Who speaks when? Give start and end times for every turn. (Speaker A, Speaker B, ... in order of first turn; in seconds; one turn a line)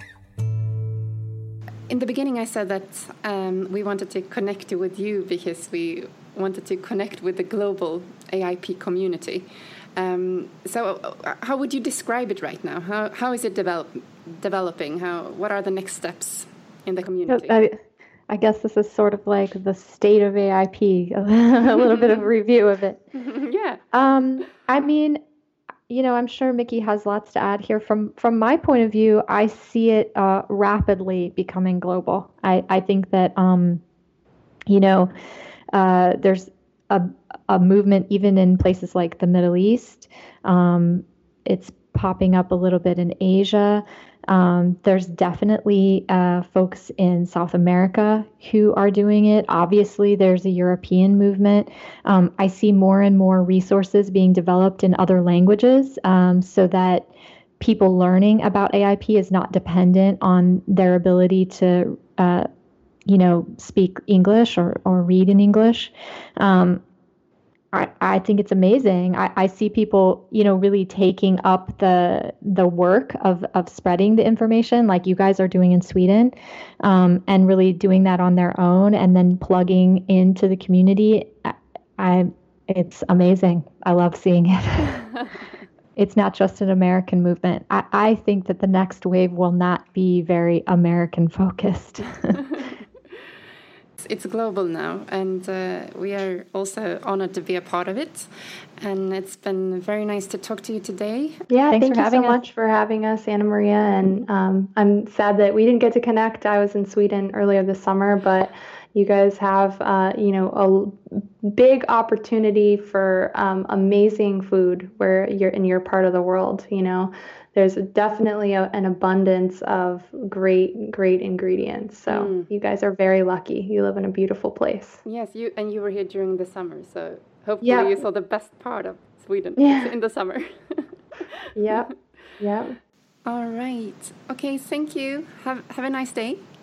Speaker A: 1.9-17.6
Speaker B: 17.3-23.0
Speaker A: 21.8-22.2
Speaker A: 23.1-23.8
Speaker B: 23.9-25.2
Speaker B: 25.9-33.8
Speaker B: 34.7-35.1
Speaker B: 35.7-57.1
Speaker B: 57.6-62.5
Speaker B: 63.0-66.8
Speaker B: 67.7-85.1
Speaker B: 86.0-92.4
Speaker A: 94.0-98.3
Speaker A: 98.8-101.3
Speaker C: 101.5-125.0
Speaker B: 101.7-102.4
Speaker A: 122.1-122.5
Speaker A: 125.0-131.8
Speaker C: 127.6-128.0
Speaker C: 129.6-129.9
Speaker C: 131.6-132.8
Speaker A: 133.2-136.4